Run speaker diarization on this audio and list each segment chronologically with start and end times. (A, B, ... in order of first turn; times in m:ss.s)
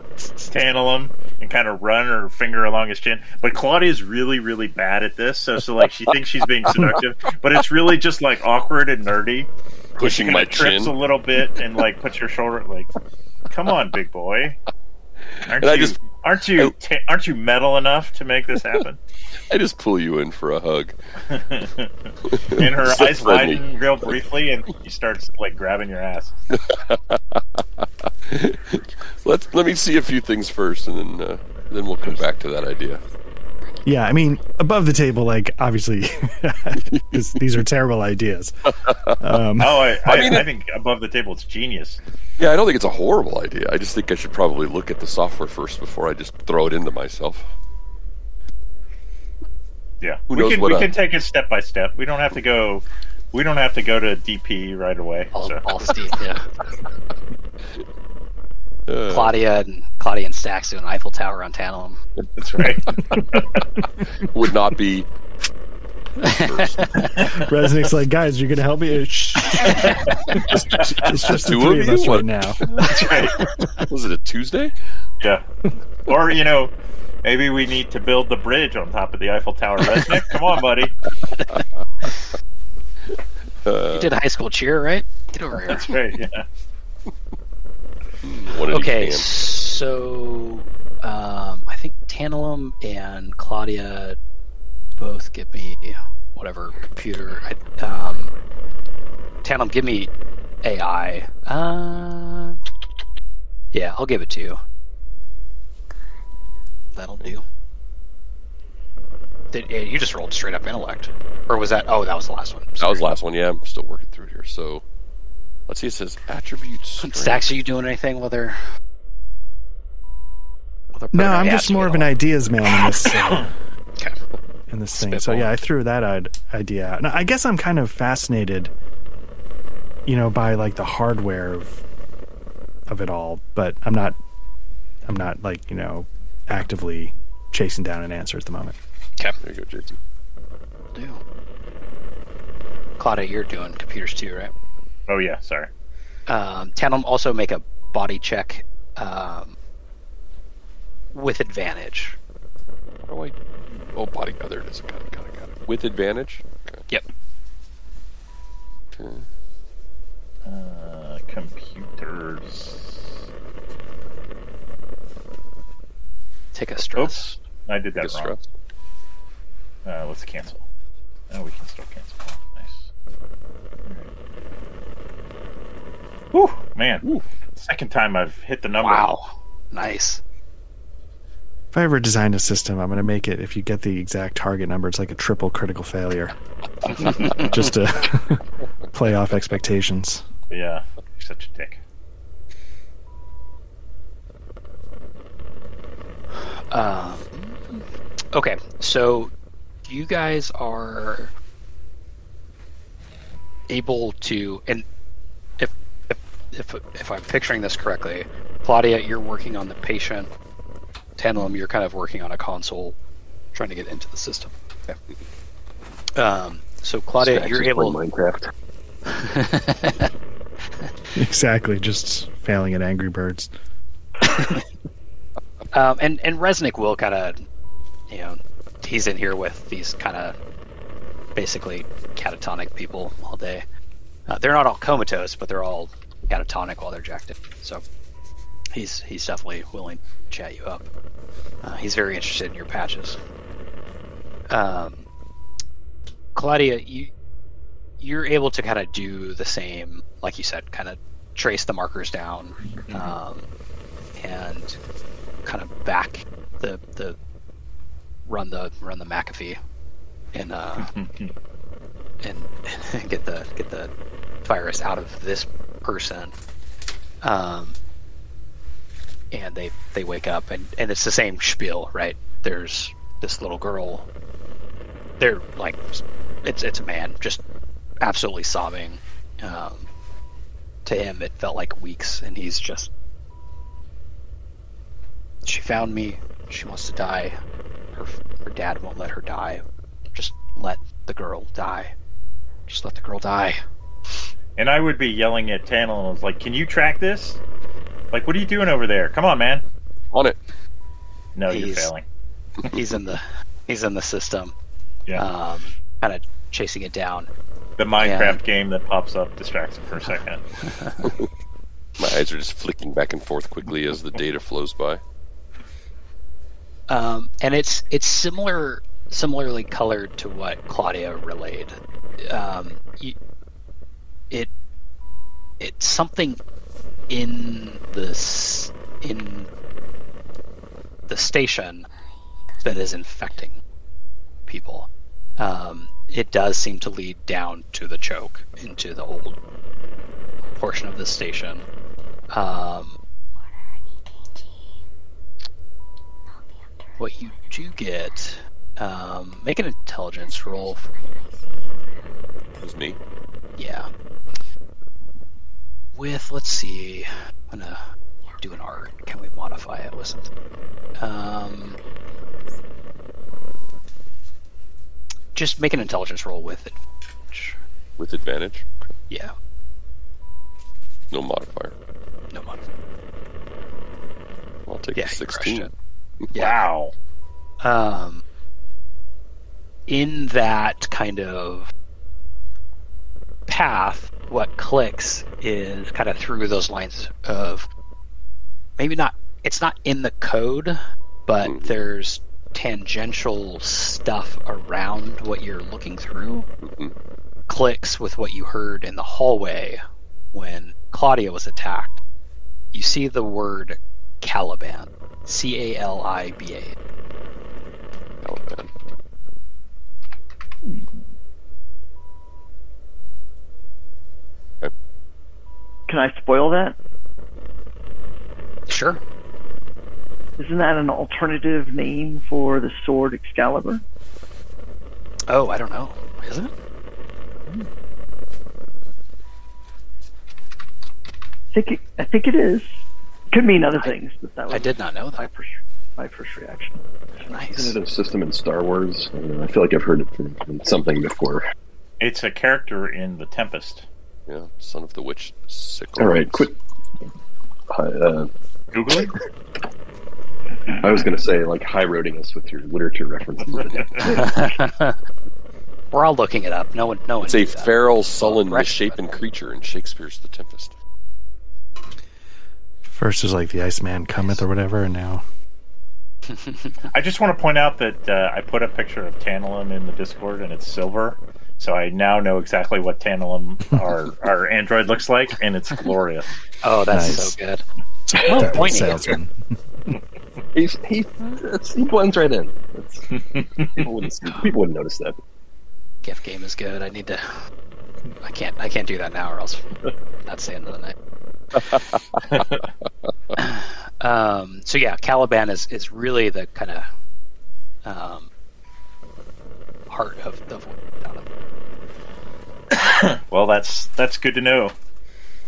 0:00.2-0:00.5 A
0:00.5-0:12.9 B
0:06.1-0:07.0 C
0:10.0-0:11.0 C
0:13.5-0:14.6 B
0:15.3-0:16.0 C
0:15.5-0:19.0 B
0:19.5-0:20.9 C
0:21.3-0:26.3 B
0:22.2-0:24.2 C
0:26.5-0:33.0 C
0:33.8-0:38.5 D
0:36.9-0:37.2 C
0:38.7-0:39.2 C
0:39.2-0:40.4 D
0:39.6-0:42.0 B
0:40.0-0:40.5 C
0:42.4-0:47.5 C
0:50.0-0:55.6 B
0:50.3-0:50.9 C
0:55.3-0:56.4 A
0:58.9-0:59.3 C
0:59.1-1:02.0 A
1:02.2-1:03.2 C
1:02.4-1:03.6 B
1:04.2-1:05.1 C
1:06.2-1:07.3 C
1:06.2-1:07.1 A
1:07.3-1:12.7 D
1:09.5-1:10.0 A
1:11.2-1:14.8 C
1:12.7-1:13.4 B
1:16.1-1:16.7 B
1:17.2-1:21.0 B
1:21.5-1:22.2 C
1:23.6-1:24.1 C
1:23.9-1:25.9 A
1:25.7-1:26.4 B
1:28.2-1:29.3 C
1:28.7-1:34.2 A
1:35.0-1:38.3 A
1:39.4-1:40.1 A
1:40.6-1:42.6 A
1:43.7-1:44.6 A
1:47.0-1:47.4 A
1:49.5-1:53.2 A
1:52.8-1:54.8 C
1:55.7-1:57.5 C
1:57.0-1:58.6 A
2:01.0-2:03.1 A
2:01.1-2:03.5 D
2:04.7-2:08.7 D
2:04.9-2:05.5 A
2:10.1-2:11.8 D
2:12.9-2:14.2 D
2:15.0-2:18.8 D
2:19.4-2:20.0 C
2:20.9-2:21.2 A
2:23.0-2:24.5 A
2:25.1-2:25.7 B
2:26.3-2:29.6 A
2:31.1-2:32.2 A
2:33.0-2:36.8 C
2:39.0-2:39.3 C
2:40.4-2:43.2 B
2:46.5-2:47.4 A
2:47.0-2:48.3 B
2:48.0-2:48.5 C
2:49.8-2:50.6 B
2:51.3-2:52.9 B
2:56.3-2:57.0 B
2:57.6-2:59.1 B
2:58.8-3:00.2 A
3:01.7-3:06.4 D
3:06.9-3:07.7 B
3:07.0-3:07.7 A
3:07.4-3:10.2 D
3:10.5-3:11.8 B
3:16.4-3:19.3 A
3:19.8-3:21.3 A
3:23.7-3:24.8 A
3:25.6-3:30.3 A
3:31.2-3:33.0 A
3:33.5-3:35.0 A
3:36.2-3:38.0 A
3:37.2-3:38.5 E
3:39.1-3:40.1 A
3:41.2-3:43.5 D
3:44.2-3:44.6 A
3:45.7-3:47.4 A
3:48.1-3:50.4 A
3:51.4-3:53.6 A
3:54.3-3:57.8 A
3:58.7-4:00.9 A
4:01.6-4:03.2 A
4:04.5-4:05.0 A
4:06.4-4:07.1 A
4:08.0-4:13.5 A
4:12.9-4:13.1 B
4:14.2-4:14.8 A
4:15.4-4:17.2 A
4:18.3-4:19.6 A
4:20.3-4:20.9 A
4:20.8-4:21.3 B
4:22.2-4:23.9 A
4:24.4-4:26.3 A
4:27.2-4:27.8 A
4:29.3-4:34.1 A
4:35.2-4:37.4 A
4:38.0-4:39.9 A
4:40.8-4:42.9 A
4:45.5-4:47.4 A
4:47.9-4:51.9 A
4:52.7-4:53.6 A
4:54.6-4:57.4 B
4:58.1-4:59.6 B
5:00.1-5:00.4 C
5:01.4-5:02.0 B
5:01.5-5:01.9 A
5:02.7-5:04.6 A
5:05.2-5:07.3 A
5:07.8-5:10.4 B
5:08.0-5:08.4 A
5:10.1-5:11.1 A
5:12.0-5:15.0 C
5:16.9-5:23.2 A
5:25.6-5:26.4 A
5:27.1-5:29.5 A
5:31.1-5:31.9 A
5:32.6-5:33.6 A
5:34.5-5:39.4 A
5:40.6-5:41.6 A
5:42.3-5:43.0 A
5:47.0-5:51.0 A
5:52.6-5:53.0 C
5:53.6-5:53.9 A
5:55.9-5:57.8 A
5:58.4-6:00.3 A
6:01.0-6:01.8 A
6:05.4-6:07.6 A
6:08.0-6:08.9 C
6:11.1-6:11.8 C
6:12.3-6:12.7 A
6:14.7-6:15.7 C
6:15.0-6:15.7 A
6:16.4-6:16.9 B
6:17.6-6:18.2 A
6:19.9-6:21.7 A
6:23.5-6:27.7 A
6:28.8-6:36.5 A
6:31.4-6:31.8 C
6:36.6-6:36.9 C
6:37.5-6:42.0 A
6:42.7-6:46.8 A
6:48.2-6:48.7 C
6:55.9-6:56.8 F
6:58.7-6:59.0 A
7:00.4-7:03.8 F
7:05.3-7:06.5 A
7:11.5-7:12.7 F
7:13.3-7:17.5 F
7:14.5-7:15.3 A
7:17.3-7:17.7 A
7:17.5-7:21.4 E
7:22.0-7:23.9 B
7:24.3-7:26.4 C
7:26.0-7:26.6 E
7:27.7-7:28.3 E
7:28.7-7:29.1 B
7:30.8-7:34.6 E
7:33.5-7:34.3 B
7:34.1-7:35.0 A
7:35.9-7:39.2 A
7:37.2-7:40.8 C
7:42.9-7:45.2 D
7:46.3-7:46.9 A
7:46.9-7:56.3 B
7:56.6-7:57.6 A
7:56.9-7:57.4 D
7:58.1-7:59.4 D
7:58.2-7:58.6 E
7:58.2-7:59.2 A
8:00.6-8:03.1 E
8:03.1-8:03.9 B
8:03.7-8:05.2 E
8:06.0-8:07.4 A
8:08.2-8:11.0 A
8:11.5-8:12.9 C
8:13.4-8:16.9 A
8:17.8-8:18.3 A
8:19.9-8:21.3 A
8:22.7-8:24.8 B